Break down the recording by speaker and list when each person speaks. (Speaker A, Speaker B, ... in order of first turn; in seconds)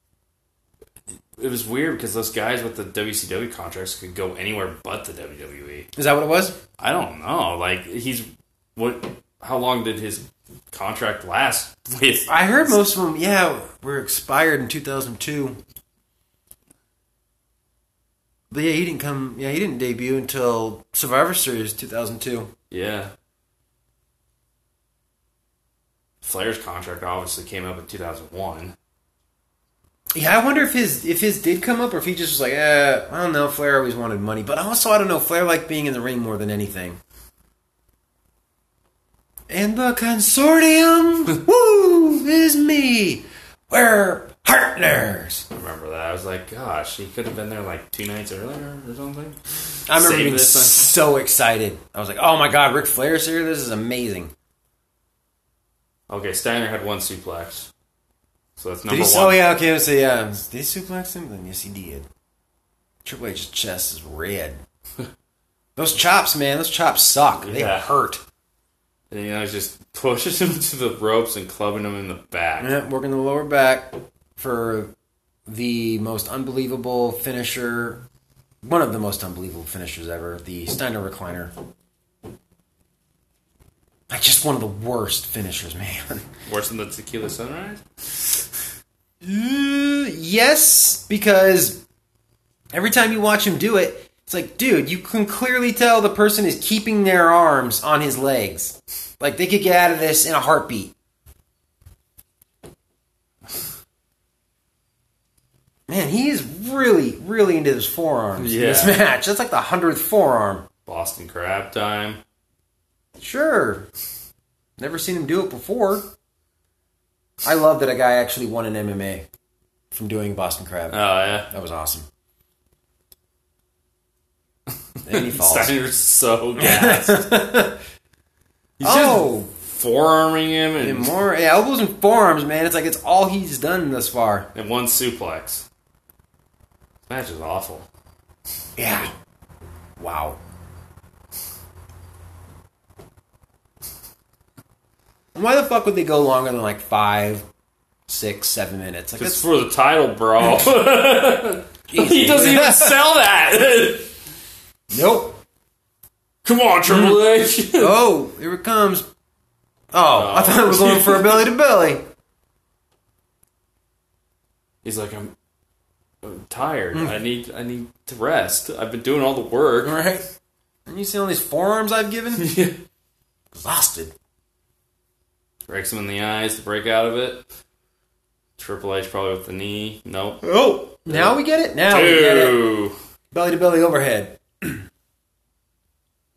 Speaker A: 1.4-5.9, 6.8-12.8, 22.7-23.1, 26.2-28.7, 45.5-49.4, 49.9-50.9, 56.1-57.7, 58.6-59.4, 67.4-67.9, 69.1-72.7, 86.5-88.4, 108.4-109.0, 110.8-112.2, 120.9-121.5, 125.1-127.4, 128.8-131.1, 134.5-135.7, 137.1-137.9, 149.2-154.1, 156.4-158.0, 160.1-161.5, 164.8-165.3, 166.2-170.0, 172.3-172.8, 175.7-177.4, 178.6-180.4, 181.1-182.9
Speaker B: 6.0-6.5, 12.3-15.6, 18.5-22.5, 30.1-37.0, 39.5-45.4, 49.9-54.3, 58.9-62.1, 63.0-64.6, 65.8-68.2, 72.6-74.9, 75.5-78.0, 78.6-81.5, 84.1-86.2, 89.2-91.8, 92.7-100.9, 105.9-110.6, 113.2-113.9, 114.8-116.1, 117.4-119.2, 119.9-122.0, 125.0-125.8, 126.6-127.8, 128.8-129.5, 130.8-134.5, 138.8-139.1, 140.0-140.4, 145.3-147.4, 148.1-149.4, 151.9-153.0, 154.9-155.4, 156.9-157.2, 157.7-159.1, 159.9-162.0, 169.8-170.2, 170.8-172.5, 173.5-174.1, 180.4-182.6, 183.3-184.8